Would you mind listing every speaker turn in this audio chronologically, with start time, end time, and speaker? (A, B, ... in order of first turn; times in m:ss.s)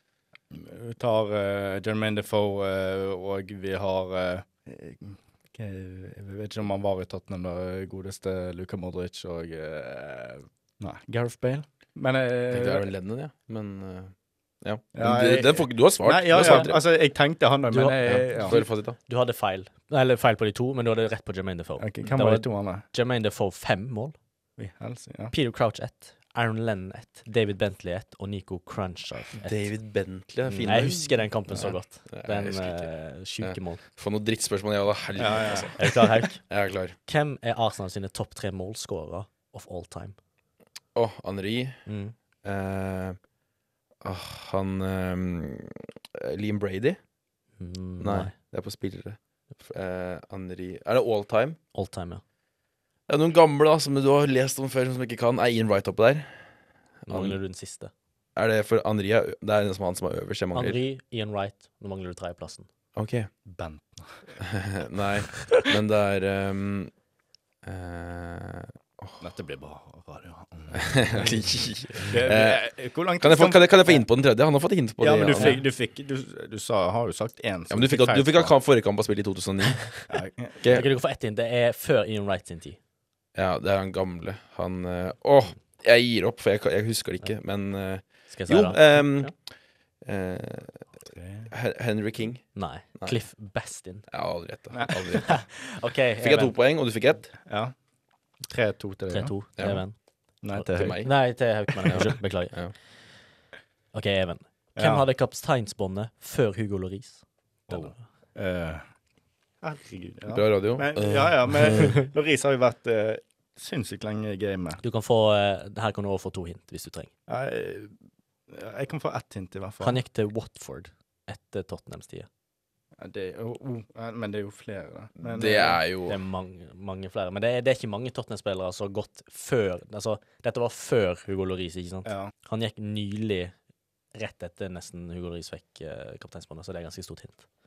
0:00.5-0:12.9 A
0:12.5-0:16.8 B
0:14.9-0:18.6 A
0:16.4-0:16.6 C
0:17.7-0:24.1 C
0:18.1-0:19.0 B
0:21.8-0:22.8 A
0:24.6-0:25.3 A
0:25.3-0:29.7 C
0:29.4-0:37.0 B
0:30.6-0:33.8 C
0:35.2-0:35.7 A
0:35.8-0:36.4 C
0:37.1-0:40.2 C
0:40.9-0:41.8 B
0:41.8-0:42.1 C
0:42.4-0:43.2 B
0:44.0-0:47.0 B
0:47.6-0:48.3 C
0:48.0-0:51.6 B
0:51.7-0:52.2 C
0:53.1-0:56.4 B
0:57.1-0:57.4 B
0:57.1-0:57.9 C
0:58.4-1:00.8 B
1:00.5-1:02.7 C
1:03.0-1:03.3 B
1:03.4-1:04.3 A
1:04.4-1:06.9 B
1:07.6-1:09.2 B
1:09.2-1:11.4 A
1:10.7-1:12.6 B
1:12.0-1:14.0 A
1:13.2-1:15.6 B
1:15.0-1:18.5 A
1:15.3-1:15.6 C
1:17.7-1:19.8 B
1:20.1-1:20.6 A
1:20.6-1:20.9 B
1:20.6-1:22.8 C
1:23.3-1:29.3 B
1:28.3-1:29.3 C
1:30.0-1:30.8 B
1:31.0-1:31.5 A
1:31.5-1:33.2 B
1:32.5-1:34.0 C
1:34.1-1:35.5 B
1:34.7-1:35.1 A
1:35.2-1:36.5 C
1:36.2-1:37.3 B
1:37.4-1:37.7 A
1:38.4-1:39.3 A
1:39.1-1:40.0 C
1:40.4-1:41.0 A
1:40.5-1:42.6 C
1:40.7-1:41.1 B
1:41.9-1:42.7 B
1:43.9-1:47.9 C
1:44.8-1:45.0 A
1:47.7-1:48.8 A
1:49.6-1:54.8 A
1:50.3-1:51.9 B
1:54.8-1:57.1 C
1:57.3-1:57.9 A
1:58.5-2:00.0 A
1:59.8-2:02.3 C
2:03.0-2:05.8 A
2:05.2-2:06.2 B
2:06.1-2:13.5 C
2:12.0-2:12.3 A
2:14.1-2:17.4 C